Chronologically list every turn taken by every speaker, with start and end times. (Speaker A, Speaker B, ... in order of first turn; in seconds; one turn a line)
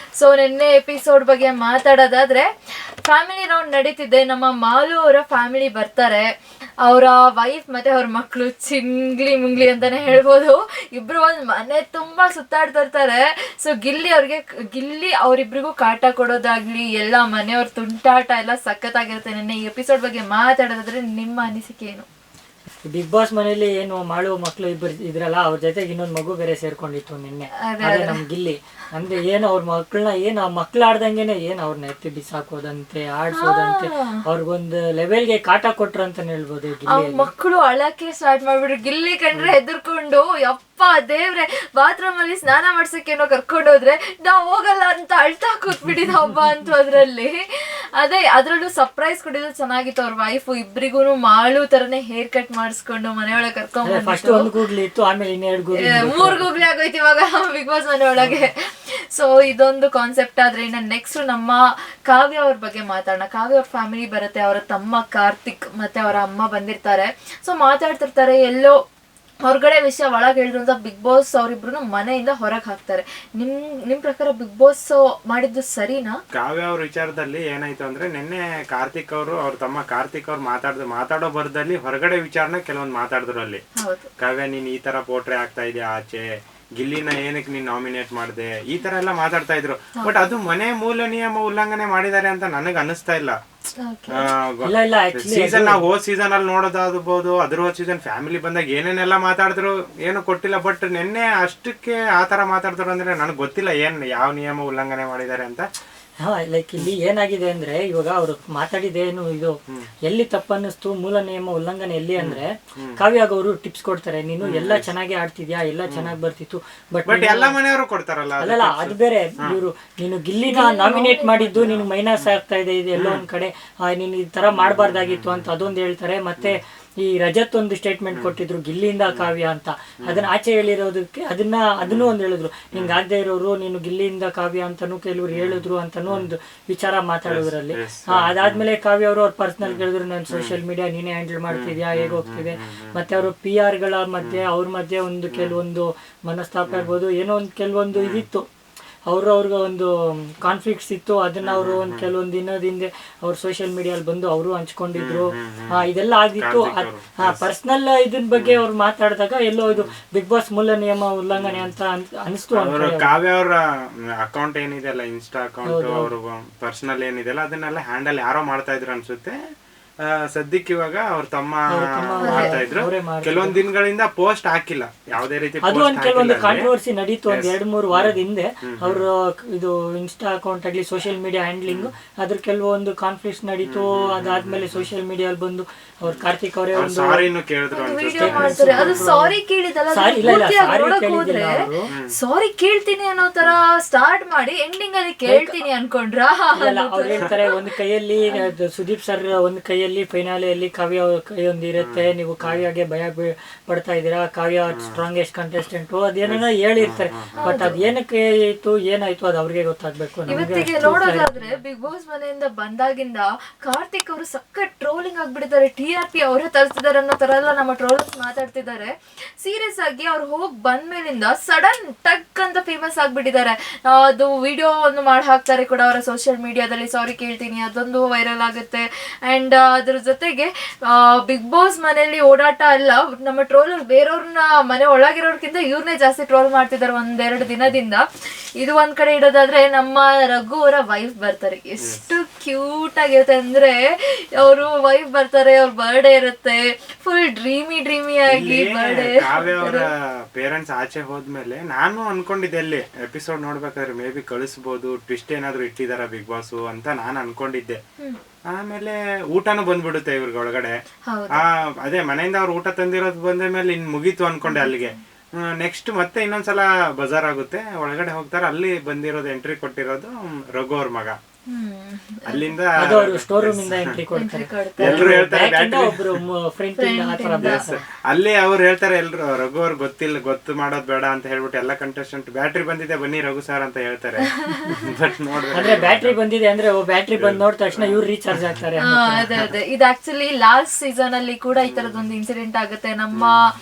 Speaker A: 0.1-2.5
Speaker A: 3.0-22.1
Speaker B: 22.8-37.3
Speaker A: 27.6-28.2
Speaker A: 33.3-34.2
Speaker A: 36.9-47.4
Speaker A: 48.0-54.5
Speaker B: 53.8-56.5
Speaker A: 55.8-58.5
Speaker B: 58.2-58.4
Speaker A: 59.1-68.8
Speaker A: 69.4-76.2
Speaker C: 76.3-83.6
Speaker A: 83.8-84.1
Speaker C: 84.2-86.3
Speaker C: 86.8-93.4
Speaker A: 93.8-94.3
Speaker C: 94.1-105.6
Speaker B: 94.6-95.8
Speaker B: 106.2-117.6
Speaker C: 112.2-113.0
Speaker C: 114.4-114.9
Speaker C: 115.9-116.1
Speaker C: 117.0-119.6
Speaker B: 118.4-148.4
Speaker A: 120.5-121.7
Speaker C: 121.5-122.3
Speaker C: 123.0-123.2
Speaker C: 124.5-125.7
Speaker C: 131.8-132.2
Speaker C: 132.7-133.0
Speaker C: 135.3-136.3
Speaker C: 137.2-138.6
Speaker C: 139.6-140.6
Speaker C: 141.5-143.3
Speaker C: 145.3-145.6
Speaker C: 146.7-146.9
Speaker C: 147.9-148.2
Speaker B: 149.1-163.2
Speaker C: 151.4-152.1
Speaker C: 154.9-155.8
Speaker C: 156.3-157.4
Speaker C: 158.3-158.6
Speaker C: 161.3-161.7
Speaker C: 162.5-163.6
Speaker C: 164.2-169.3
Speaker B: 165.6-166.1
Speaker C: 170.3-176.7
Speaker B: 171.7-173.6
Speaker A: 172.2-172.6
Speaker B: 175.6-187.3
Speaker C: 177.3-179.0
Speaker C: 183.6-184.9
Speaker C: 186.7-189.2
Speaker A: 187.7-197.5
Speaker B: 188.1-189.3
Speaker B: 189.9-191.9
Speaker B: 195.3-195.6
Speaker B: 196.5-211.6
Speaker C: 201.8-202.7
Speaker C: 204.7-205.0
Speaker C: 206.2-207.9
Speaker A: 207.4-207.7
Speaker A: 210.3-238.0
Speaker C: 210.3-211.0
Speaker A: 238.6-243.8
Speaker A: 244.3-249.9
Speaker C: 248.3-257.8
Speaker C: 258.5-260.7
Speaker A: 261.1-261.4
Speaker C: 261.3-264.9
Speaker A: 264.4-264.9
Speaker C: 265.6-271.1
Speaker A: 271.5-272.5
Speaker C: 272.2-273.9
Speaker B: 272.8-277.8
Speaker A: 274.1-275.1
Speaker C: 274.8-276.2
Speaker A: 276.8-277.6
Speaker C: 277.4-286.2
Speaker A: 284.4-284.8
Speaker B: 285.5-289.3
Speaker C: 287.1-288.0
Speaker A: 288.9-293.4
Speaker C: 289.2-289.5
Speaker C: 291.5-292.1
Speaker C: 293.1-293.4